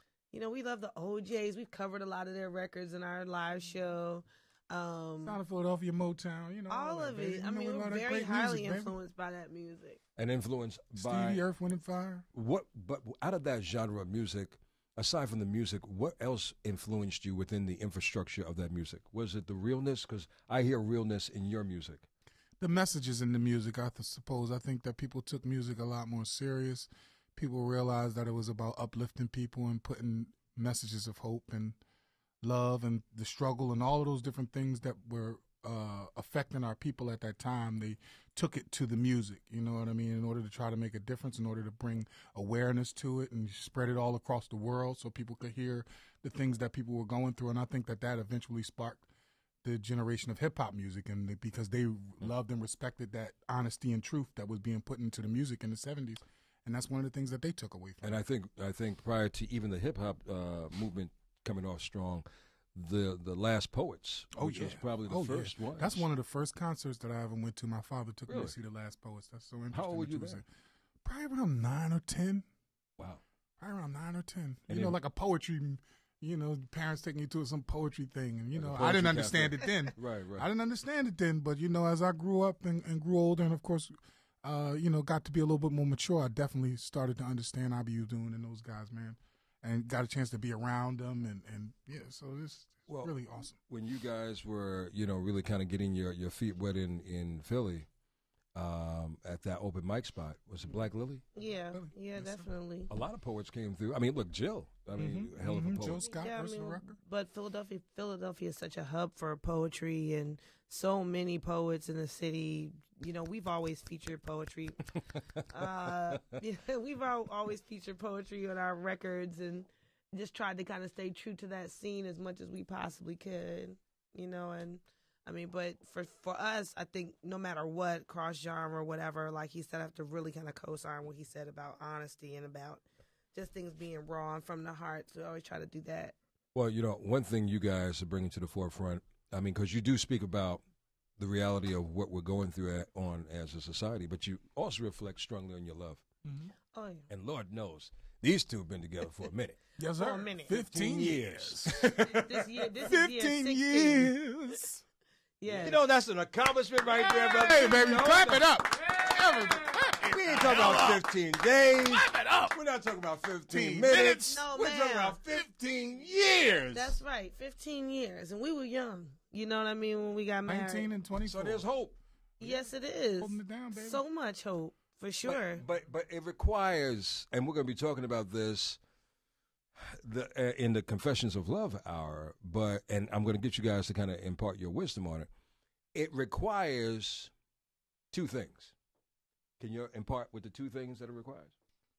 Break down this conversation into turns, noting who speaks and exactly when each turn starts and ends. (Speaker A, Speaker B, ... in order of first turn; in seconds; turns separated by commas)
Speaker A: 0.3-5.4, Speaker B: 5.2-9.0, Speaker A: 6.7-10.0, Speaker C: 10.2-11.4, Speaker B: 10.9-12.2, Speaker C: 12.3-22.1, Speaker B: 22.6-31.8, Speaker B: 32.4-49.1, Speaker B: 49.6-58.2, Speaker C: 58.0-66.0, Speaker B: 64.3-70.4, Speaker C: 68.3-68.5, Speaker C: 69.7-70.4, Speaker B: 71.0-72.4, Speaker B: 73.6-93.6, Speaker C: 74.7-75.0, Speaker C: 78.5-80.5, Speaker C: 92.9-93.1, Speaker C: 93.7-97.9, Speaker C: 98.5-101.2, Speaker A: 101.3-102.9, Speaker B: 101.7-102.5, Speaker C: 102.9-106.0, Speaker B: 105.0-107.0, Speaker A: 106.1-114.8, Speaker A: 115.5-136.1, Speaker C: 136.5-140.6, Speaker C: 141.2-146.0, Speaker B: 146.2-146.5, Speaker A: 146.7-147.1, Speaker C: 147.1-149.6, Speaker B: 149.8-152.0, Speaker A: 150.0-150.6, Speaker C: 150.7-152.4, Speaker A: 151.9-154.1, Speaker B: 152.8-154.8, Speaker A: 155.4-155.8, Speaker C: 155.6-158.4, Speaker B: 156.9-161.1, Speaker C: 160.0-166.0, Speaker B: 161.7-162.6, Speaker B: 163.5-167.0, Speaker A: 164.2-165.2, Speaker A: 166.7-170.9, Speaker B: 170.4-171.6, Speaker C: 171.2-171.9, Speaker A: 172.4-175.6, Speaker B: 173.2-174.0, Speaker C: 175.2-178.8, Speaker C: 179.8-185.3, Speaker C: 185.9-187.3, Speaker C: 188.1-188.7, Speaker C: 189.6-191.5